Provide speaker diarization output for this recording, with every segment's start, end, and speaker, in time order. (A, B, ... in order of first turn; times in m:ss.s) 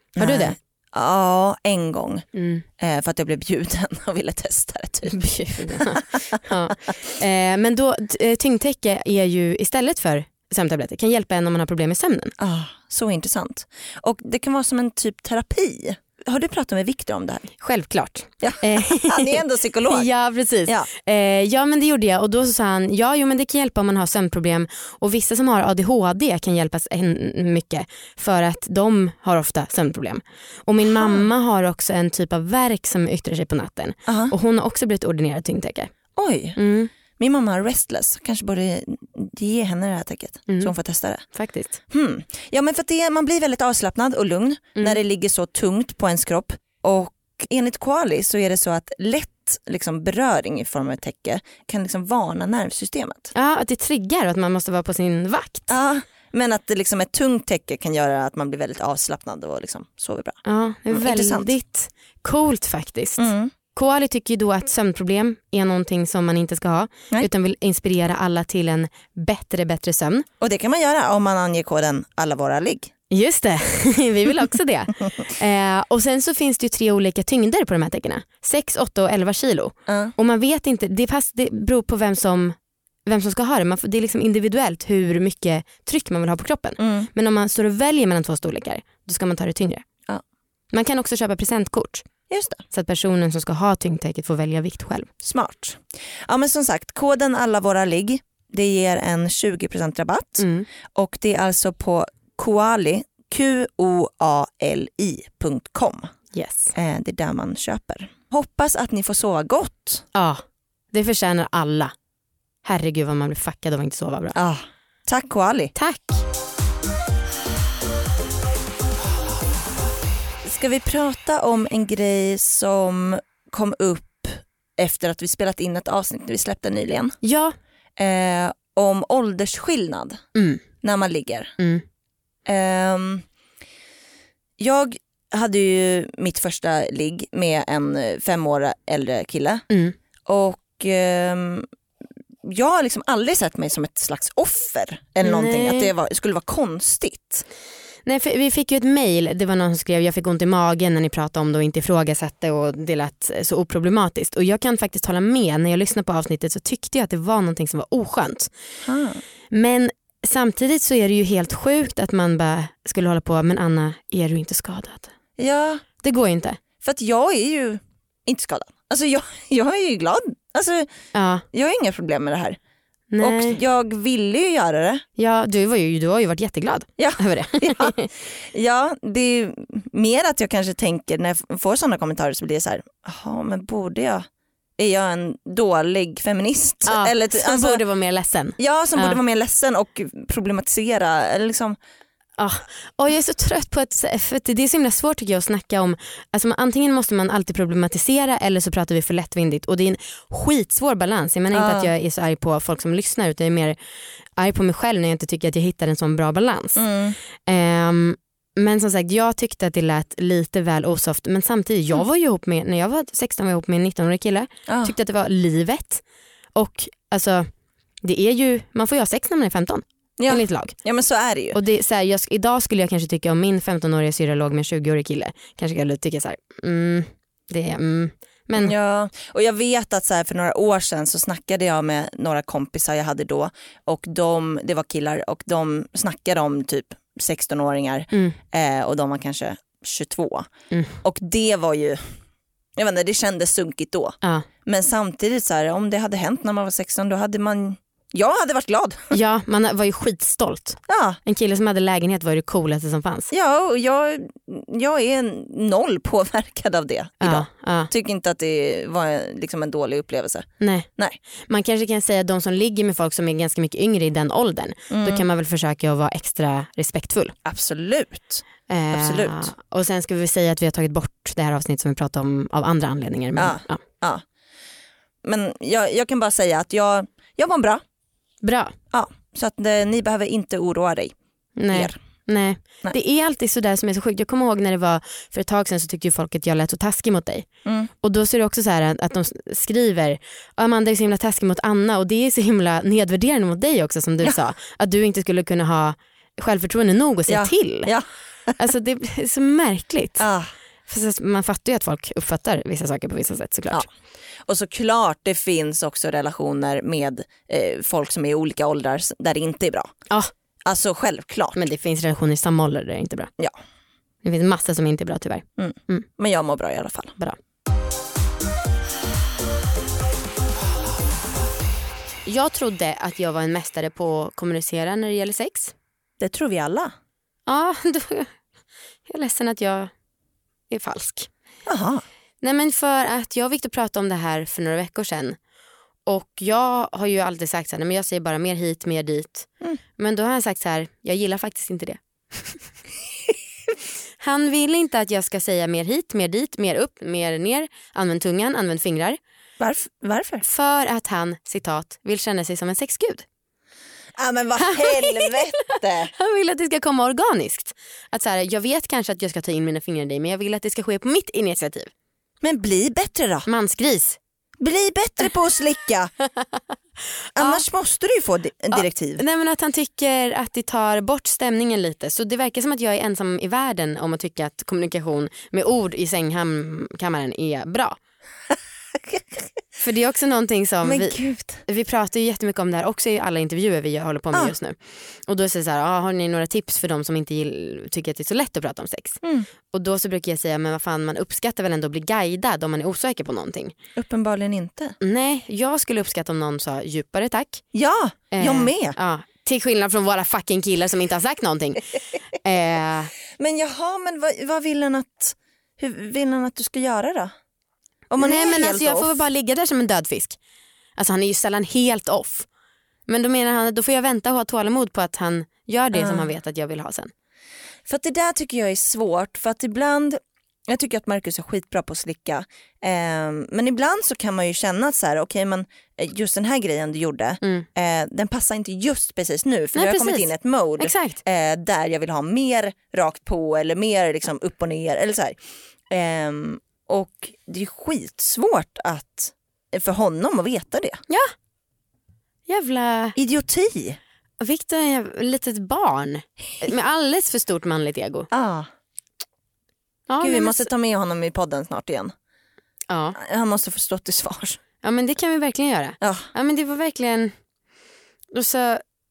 0:00.2-0:02.2 A
0:00.2-0:00.6 B
0:02.3-0:02.6 B
0:02.8-0:06.0 A
0:05.0-0:12.3 B
0:12.4-0:17.5 A
0:17.6-0:35.9 B
0:18.4-0:20.1 A
0:30.9-0:31.3 A
0:34.1-0:34.3 A
0:36.2-0:36.6 A
0:36.6-0:36.9 B
0:37.2-0:41.2 A
0:40.5-0:40.7 B
0:41.3-0:41.8 B
0:41.9-0:53.3 A
0:53.3-0:55.7 B
0:55.7-1:01.5 A
1:00.4-1:10.2 B
1:03.2-1:03.5 A
1:10.4-1:12.9 A
1:13.1-1:29.8 B
1:19.9-1:20.1 A
1:26.8-1:27.1 A
1:30.7-1:32.0 B
1:32.3-1:32.6 A
1:32.7-1:35.1 B
1:35.2-1:46.1 A
1:40.4-1:40.7 B
1:46.3-1:46.7 B
1:46.7-1:50.0 A
1:50.1-1:51.9 B
1:52.6-1:54.4 B
1:54.3-1:55.7 A
1:55.7-1:56.2 B
2:00.4-2:07.2 A
2:07.2-2:07.5 B
2:08.0-2:10.2 A
2:10.3-2:10.6 B
2:10.8-2:11.5 A
2:11.6-2:11.8 B
2:12.4-2:13.2 A
2:14.6-2:19.6 A
2:19.7-2:20.0 B
2:20.2-2:21.7 A
2:22.4-2:27.4 A
2:25.2-2:25.9 B
2:28.0-2:38.5 B
2:38.8-2:39.2 A
2:39.5-2:45.1 B
2:45.4-2:45.8 A
2:46.0-2:46.6 B
2:46.8-2:50.9 A
2:51.1-2:51.4 B
2:51.5-2:52.6 A
2:53.1-2:53.6 B
2:53.2-2:55.0 A
2:55.2-2:58.1 B
2:57.0-3:04.3 A
3:04.8-3:07.8 A
3:06.9-3:09.2 B
3:08.6-3:11.8 A
3:12.4-3:23.8 B
3:21.5-3:21.9 A
3:24.4-3:26.8 B
3:26.8-3:27.2 A
3:27.4-3:36.0 B
3:34.7-3:34.9 A
3:36.5-3:37.5 B
3:38.0-3:40.7 B
3:40.2-3:41.6 A
3:41.5-3:48.7 B
3:48.6-4:00.5 A
3:58.1-3:58.4 B
4:00.7-4:01.0 B
4:01.0-4:02.1 A
4:02.8-4:09.1 A
4:09.1-4:13.3 B
4:10.9-4:11.2 A
4:13.3-4:21.2 A
4:17.2-4:17.9 B
4:20.6-4:27.3 B
4:24.9-4:25.2 A
4:27.4-4:29.5 A
4:28.7-4:33.8 B
4:33.4-4:34.2 A
4:35.2-4:37.8 A
4:38.4-4:38.7 B
4:38.9-4:41.2 A
4:41.6-4:47.5 B
4:41.7-4:42.0 A
4:47.6-4:47.9 A
4:48.0-4:57.9 B
4:57.3-4:58.6 A
4:58.6-5:00.2 B
5:00.2-5:00.5 A
5:00.9-5:03.9 B
5:04.4-5:09.9 A
5:10.6-5:11.6 A
5:11.5-5:13.3 B
5:14.2-5:16.1 B
5:15.6-5:17.2 A
5:22.2-5:25.7 B
5:26.2-5:26.9 A
5:27.5-5:28.4 B
5:29.1-5:29.9 B
5:30.7-5:31.3 B
5:31.6-5:32.0 A
5:32.4-5:35.4 B
5:36.0-5:42.6 B
5:44.2-5:49.2 B
5:49.6-5:50.4 A
5:50.4-5:53.2 B
5:54.2-5:56.1 A
5:54.6-6:01.9 B
6:02.4-6:03.5 A
6:03.4-6:04.2 B
6:04.6-6:06.1 A
6:07.4-6:07.6 B
6:07.4-6:09.2 A
6:08.7-6:18.0 B
6:19.1-6:19.4 A
6:19.8-6:33.7 B
6:20.8-6:21.6 A
6:29.2-6:29.5 A
6:34.0-6:35.0 A
6:35.0-6:37.6 B
6:37.7-6:39.0 A
6:38.3-6:43.1 B
6:43.3-6:47.3 A
6:48.1-6:49.2 A
6:48.2-6:50.4 B
6:51.0-6:52.5 B
6:53.1-6:57.1 B
6:55.9-6:56.3 A
6:57.8-7:15.4 A
7:07.4-7:07.7 B
7:09.7-7:11.2 B
7:15.9-7:21.0 A
7:22.5-7:23.2 B
7:23.2-7:24.0 A
7:24.4-7:28.3 B
7:28.3-7:28.7 A
7:30.1-7:30.7 B
7:30.2-7:32.1 A
7:32.9-7:33.2 B
7:33.2-7:34.6 A
7:34.8-7:37.3 B
7:36.0-7:36.3 A
7:38.3-7:38.8 B